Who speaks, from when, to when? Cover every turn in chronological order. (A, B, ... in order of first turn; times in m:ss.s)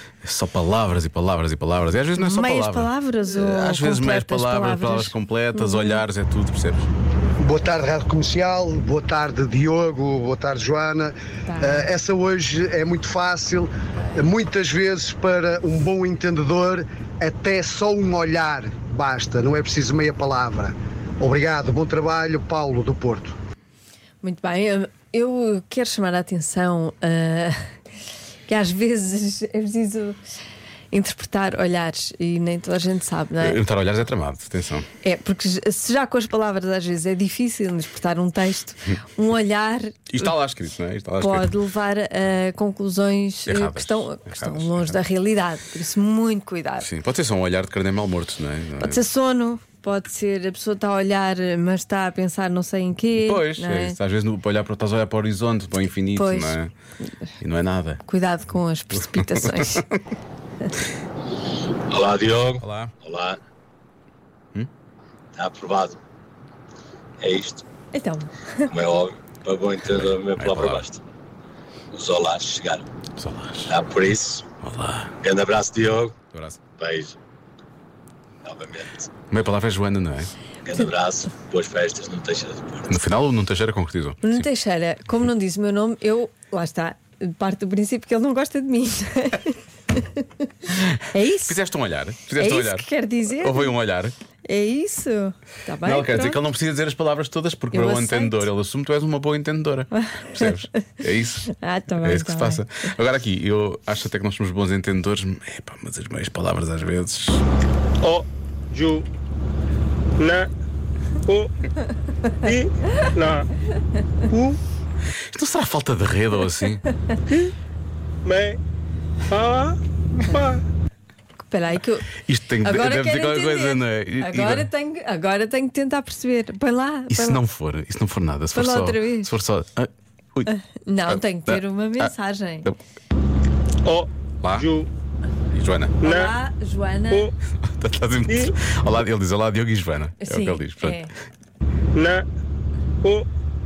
0:00.2-0:06.9 A
0:02.2-0:06.0 B
0:07.4-0:23.4 C
0:11.5-0:11.9 B
0:24.2-0:27.6 B
0:28.5-0:30.2 B
0:30.9-0:33.6 B
0:33.4-0:34.9 A
0:35.0-0:40.3 B
0:40.1-0:41.6 A
0:41.2-0:46.9 B
0:43.5-0:45.0 A
0:46.8-0:49.0 A
0:48.8-0:54.0 B
0:53.2-0:56.7 A
0:56.1-0:56.6 B
0:57.4-0:58.0 A
0:58.1-0:59.9 B
0:58.9-0:59.9 A
1:01.9-1:03.4 D
1:02.6-1:02.9 A
1:05.3-1:06.0 D
1:07.2-1:07.6 D
1:07.9-1:08.7 B
1:08.7-1:11.0 D
1:10.0-1:10.9 A
1:11.9-1:12.8 D
1:13.2-1:13.7 A
1:13.7-1:14.5 D
1:14.6-1:15.1 A
1:15.2-1:16.2 D
1:16.3-1:16.6 A
1:16.8-1:17.2 D
1:18.4-1:19.1 D
1:19.3-1:20.3 A
1:20.6-1:22.9 D
1:22.9-1:24.5 A
1:24.2-1:31.6 B
1:31.0-1:34.2 A
1:32.3-1:33.7 B
1:34.4-1:36.4 B
1:35.8-1:41.5 A
1:37.7-1:38.5 B
1:39.9-1:40.6 B
1:41.5-1:42.6 B
1:42.0-1:47.4 A
1:48.0-1:49.1 E
1:50.2-1:50.5 E
1:51.2-1:51.5 E
1:52.4-1:53.5 E
1:54.3-1:54.6 E
1:55.3-1:56.8 A
1:58.2-1:58.6 E
1:59.3-2:00.6 E
2:01.4-2:07.4 B
2:02.2-2:04.7 A
2:07.1-2:10.5 A
2:08.5-2:09.3 B
2:10.5-2:12.7 B
2:11.1-2:12.1 A
2:13.8-2:14.9 E
2:14.4-2:14.7 A
2:15.5-2:16.0 A
2:16.0-2:16.3 E
2:16.0-2:17.3 B
2:17.6-2:21.1 A
2:20.2-2:21.1 B
2:22.0-2:22.2 E